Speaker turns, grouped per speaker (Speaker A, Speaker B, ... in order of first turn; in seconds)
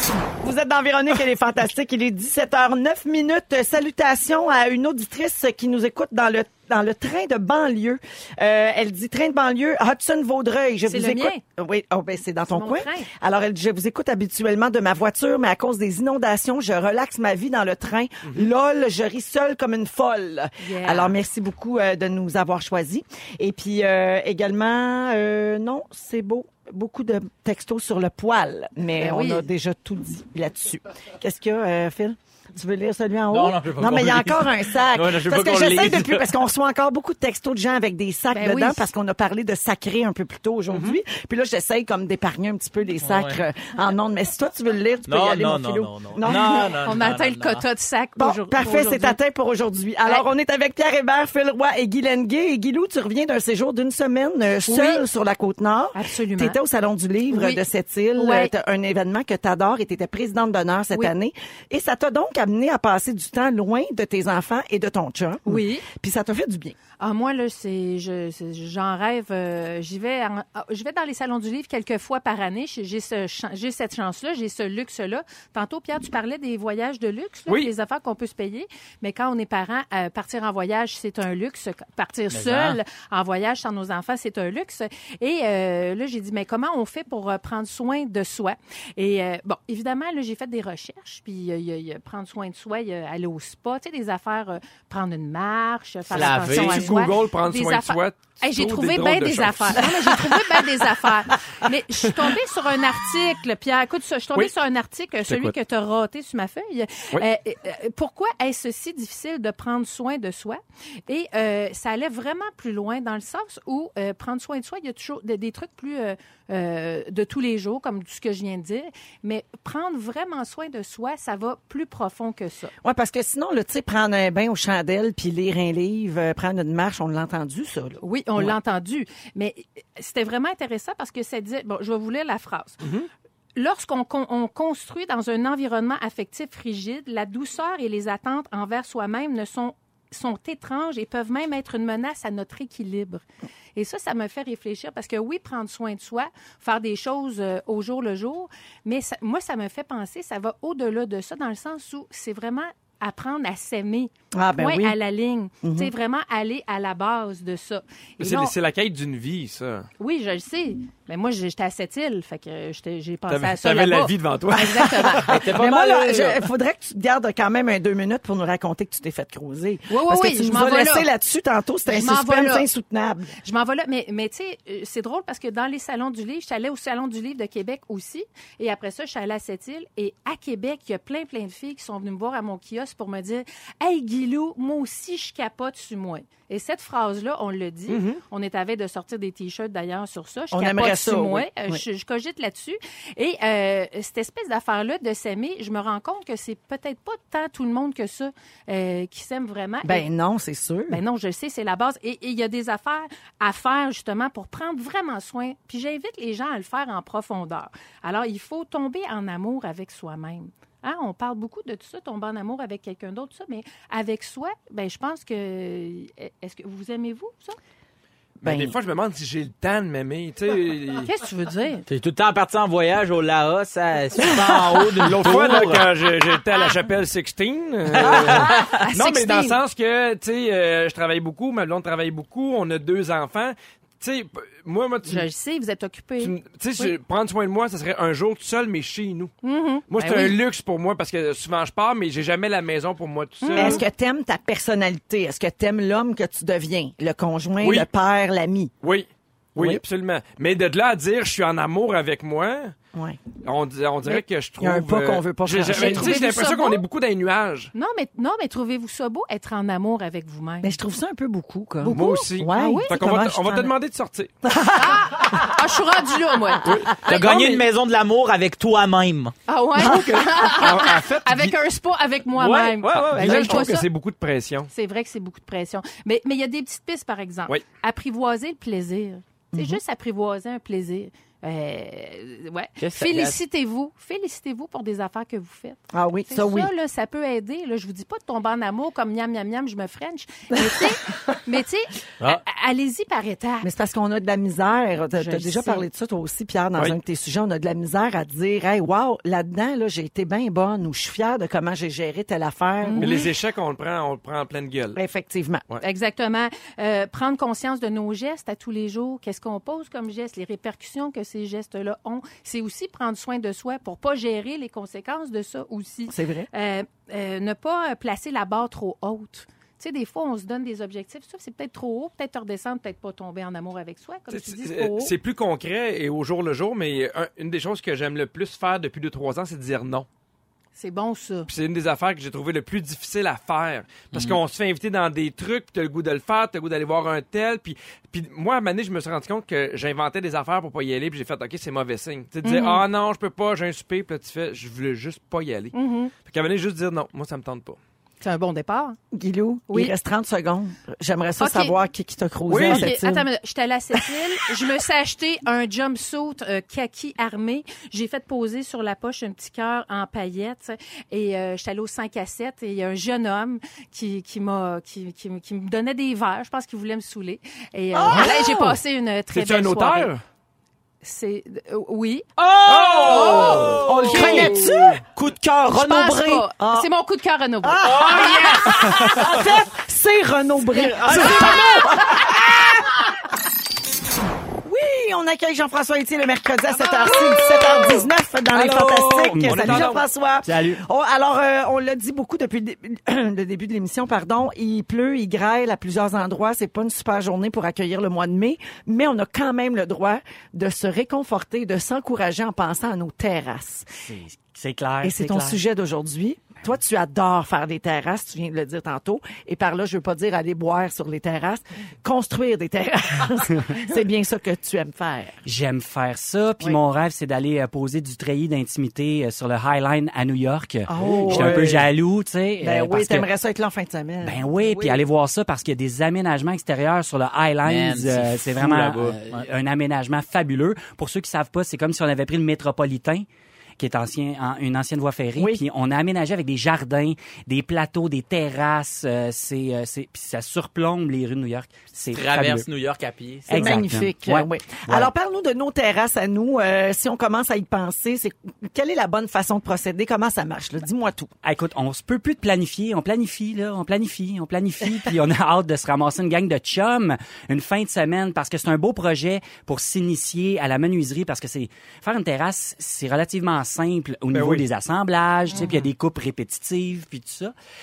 Speaker A: 0.4-46.7, 48.2-66.8, 122.8-128.6, 154.3-155.0, 155.6-155.9, 165.4-173.3, 190.5-191.8, 199.8-201.0, 218.4-218.7, 243.6-248.7, 252.9-253.2, 254.1-256.2, 260.6-263.8, 264.4-265.5, 279.5-279.8, 285.9-286.7, 293.6-303.2, 304.9-305.6, 316.1-316.5, 349.1-353.3, 367.9-368.7, 373.8-375.0, 376.6-376.9, 377.6-382.8, 384.6-403.9, 405.0-415.4, 420.9-421.9, 422.6-425.0, 435.4-435.6, 443.5-451.3
Speaker B: 10.8-11.4, 12.5-13.1, 20.6-21.1, 29.0-29.5, 38.3-38.9, 46.2-49.2, 54.7-55.0, 55.9-56.6, 57.3-57.6, 58.2-58.5, 65.5-65.8, 67.0-122.7, 128.0-132.8, 133.6-143.2, 143.7-158.5, 160.0-165.3, 169.9-171.1, 171.9-172.7, 173.4-200.1, 200.9-217.6, 220.9-221.8, 228.5-229.6, 235.0-236.9, 239.4-240.4, 243.4-243.8, 255.7-256.8, 257.7-260.7, 261.8-263.0, 264.7-267.6, 269.5-273.9, 274.7-293.7, 295.1-295.9, 302.8-303.3, 305.8-325.1, 330.8-331.5, 342.4-342.9, 345.7-346.1, 348.2-349.0, 349.7-349.9, 351.4-351.8, 352.6-370.1, 371.0-372.3, 373.0-374.7, 375.7-379.2
Speaker C: 33.3-36.3, 43.0-43.4, 45.1-47.6, 82.3-82.8, 96.1-96.9, 165.2-166.4, 221.9-225.8, 228.0-228.6, 267.0-269.3, 273.0-273.4, 282.8-283.4, 334.1-334.4, 372.4-376.4, 377.8-379.3, 380.7-382.0, 427.6-429.4, 442.1-443.8
Speaker D: 40.7-41.0, 96.1-100.2, 105.2-105.5, 132.8-133.1, 158.2-159.9, 163.3-165.5, 187.9-188.2, 218.4-221.1, 225.0-235.3, 236.2-239.3, 239.9-243.8, 247.6-247.9, 248.8-252.7, 253.4-257.7, 261.9-264.3, 266.6-267.3, 269.8-271.6, 272.3-274.7, 303.0-305.0, 324.3-330.1, 331.5-347.8, 352.5-353.0, 368.1-368.4, 369.3-370.2, 372.6-374.8, 378.9-379.3, 389.3-390.0, 421.2-421.8, 464.3-464.6
Speaker E: 388.5-390.8, 404.0-405.6, 415.4-423.3, 424.2-433.2, 433.8-442.7, 443.5-445.1, 451.4-467.5